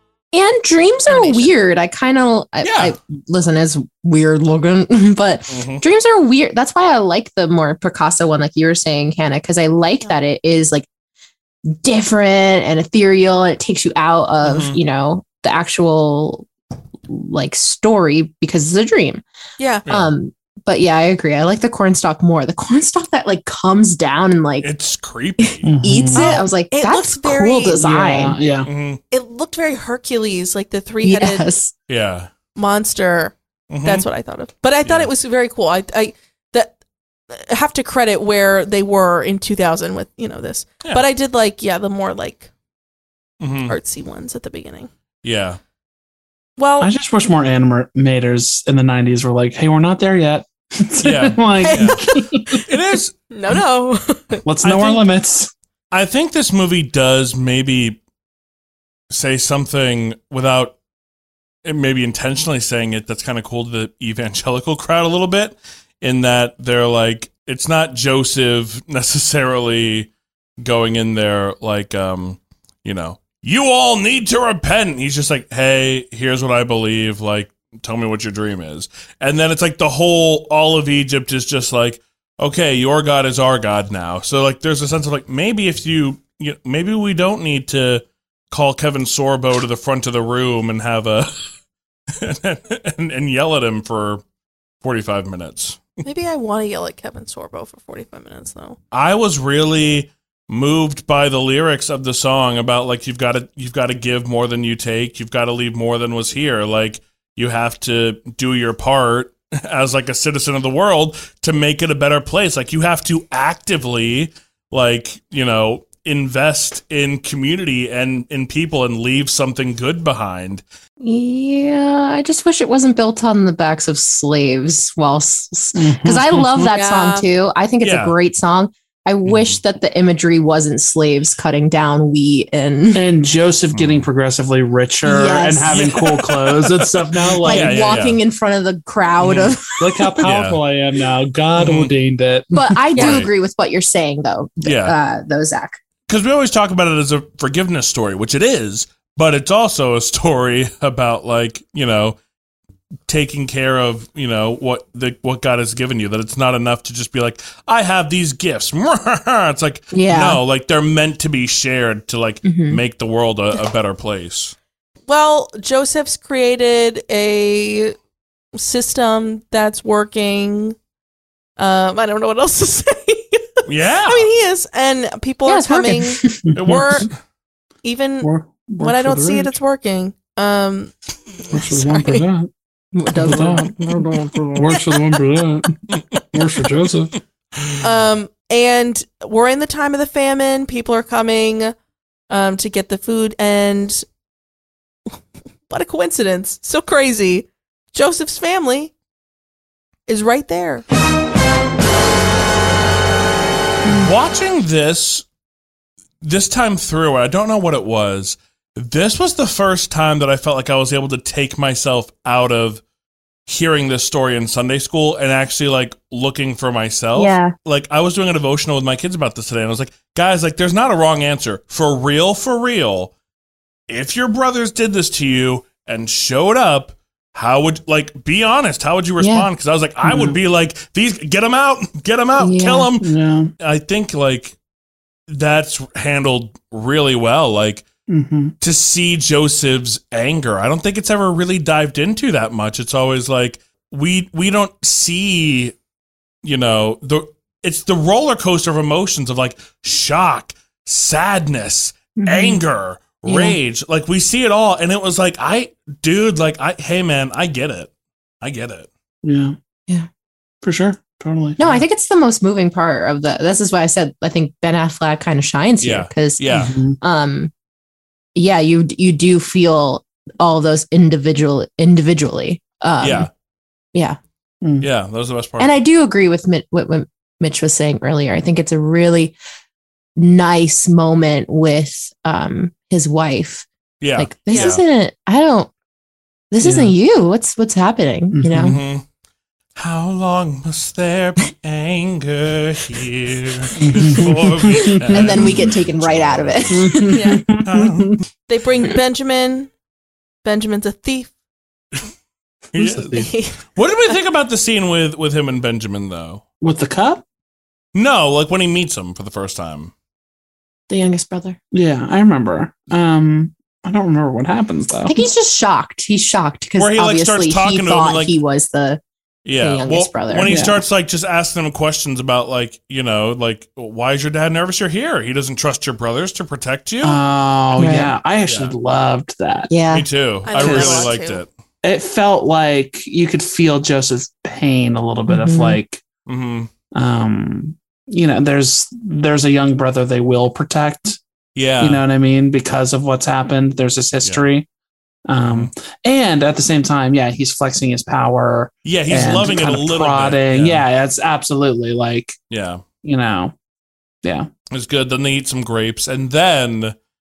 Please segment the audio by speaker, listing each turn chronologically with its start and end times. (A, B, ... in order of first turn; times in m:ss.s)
0:00.3-0:10.9 A
0:01.1-0:01.5 B
0:02.6-0:03.0 B
0:05.5-0:05.8 B
0:11.7-0:16.5 A
0:14.4-0:14.8 B
0:17.1-0:19.2 A
0:19.6-0:19.8 C
0:19.8-0:20.1 B
0:19.9-0:24.7 A
0:24.6-0:25.7 B
0:25.5-0:28.4 A
0:25.6-0:26.4 D
0:26.1-0:27.8 C
0:27.7-0:28.7 D
0:28.6-0:29.0 B
0:29.1-0:31.5 C
0:31.0-0:31.7 A
0:31.9-0:32.3 B
0:32.6-0:33.3 C
0:33.7-0:34.0 B
0:33.8-0:36.7 C
0:34.8-0:35.1 B
0:37.3-0:42.5 C
0:43.4-0:43.8 B
0:43.7-0:44.9 C
0:45.2-0:45.6 B
0:46.6-0:46.9 C
0:46.8-0:52.5 D
0:51.0-0:53.2 B
0:51.6-0:52.6 C
0:53.3-0:54.4 C
0:54.4-0:55.5 D
0:54.6-0:55.0 B
0:55.9-0:58.0 B
0:59.1-1:00.8 B
1:01.6-1:31.4 B
1:32.2-1:34.2 B
1:34.8-1:35.8 B
1:36.0-1:38.8 C
1:38.9-2:00.6 B
2:01.0-2:13.0 A
2:05.7-2:06.7 D
2:06.7-2:07.3 C
2:07.8-2:08.2 B
2:09.2-2:09.6 B
2:12.9-2:17.9 D
2:13.7-2:14.0 B
2:15.0-2:16.3 A
2:15.7-2:16.5 B
2:17.4-2:20.3 A
2:17.4-2:18.2 B
2:19.2-2:19.5 B
2:19.8-2:22.8 D
2:20.2-2:20.6 B
2:21.6-2:21.9 B
2:22.5-2:25.8 A
2:22.9-2:23.2 C
2:23.0-2:23.3 B
2:24.6-2:24.9 B
2:26.1-2:32.2 B
2:33.1-2:44.5 B
2:39.9-2:40.4 A
2:42.4-2:42.8 A
2:45.1-2:48.0 C
2:48.5-2:50.8 C
2:51.6-2:57.1 C
2:53.6-2:54.3 B
2:55.4-2:56.5 A
2:56.5-2:57.1 D
2:56.5-2:57.1 B
2:57.8-3:00.9 C
2:58.2-2:59.6 D
3:01.5-3:02.5 D
3:01.7-3:02.2 A
3:01.7-3:02.1 C
3:02.9-3:05.0 A
3:03.1-3:03.8 D
3:04.5-3:05.8 D
3:05.9-3:06.2 B
3:06.3-3:07.2 D
3:07.6-3:07.8 B
3:07.8-3:11.7 C
3:12.3-3:14.0 C
3:15.7-3:18.9 C
3:20.1-3:20.8 C
3:23.9-3:25.2 B
3:26.2-3:32.8 B
3:33.4-3:43.1 B
3:37.1-3:37.5 A
3:43.9-3:54.5 B
3:49.2-3:49.5 A
3:50.0-3:50.4 D
3:52.4-3:52.9 A
3:53.0-3:53.5 D
3:55.3-3:57.9 B
3:58.1-3:58.5 D
3:58.6-4:05.7 B
4:06.4-4:17.9 B
4:12.2-4:12.6 A
4:13.2-4:13.6 A
4:18.4-4:18.9 B
4:19.2-4:19.6 D
4:20.6-4:21.8 D
4:21.6-4:27.5 A
4:25.8-4:26.7 B
4:26.5-4:27.0 D
4:28.3-4:33.3 A
4:33.0-4:33.3 B
4:34.6-4:34.9 D
4:34.8-4:35.7 B
4:35.6-4:39.3 A
4:40.2-4:45.7 A
4:44.0-4:44.8 B
4:44.5-4:44.8 C
4:46.5-4:48.8 A
4:46.6-4:46.9 D
4:48.3-4:48.8 D
4:48.5-4:49.0 B
4:49.8-4:58.2 B
4:53.8-4:55.7 D
4:54.9-4:57.4 A
4:56.7-4:58.1 D
4:57.1-4:57.4 C
4:58.5-4:59.7 C
5:00.4-5:01.3 C
5:02.7-5:06.4 B
5:02.7-5:03.3 D
5:03.2-5:03.6 C
5:06.6-5:07.2 D
5:07.9-5:09.9 B
5:10.9-5:11.6 A
5:11.7-5:15.1 D
5:15.0-5:19.0 A
5:16.8-5:18.4 B
5:19.4-5:27.2 B
5:19.6-5:20.6 A
5:20.5-5:20.8 D
5:27.0-5:29.7 D
5:27.8-5:28.1 A
5:28.4-5:28.7 B
5:29.7-5:30.1 A
5:29.9-5:31.5 B
5:30.4-5:31.4 C
5:30.6-5:31.1 D
5:31.8-5:36.0 D
5:35.3-5:35.8 A
5:36.2-5:36.7 B
5:36.9-5:41.2 D
5:41.5-5:42.0 B
5:41.8-5:44.7 D
5:44.2-5:44.5 B
5:45.3-5:52.4 D
5:45.4-5:45.7 B
5:48.8-5:50.8 B
5:52.5-5:52.8 B
5:53.0-5:53.5 D
5:54.2-5:54.5 D
5:54.7-5:56.9 B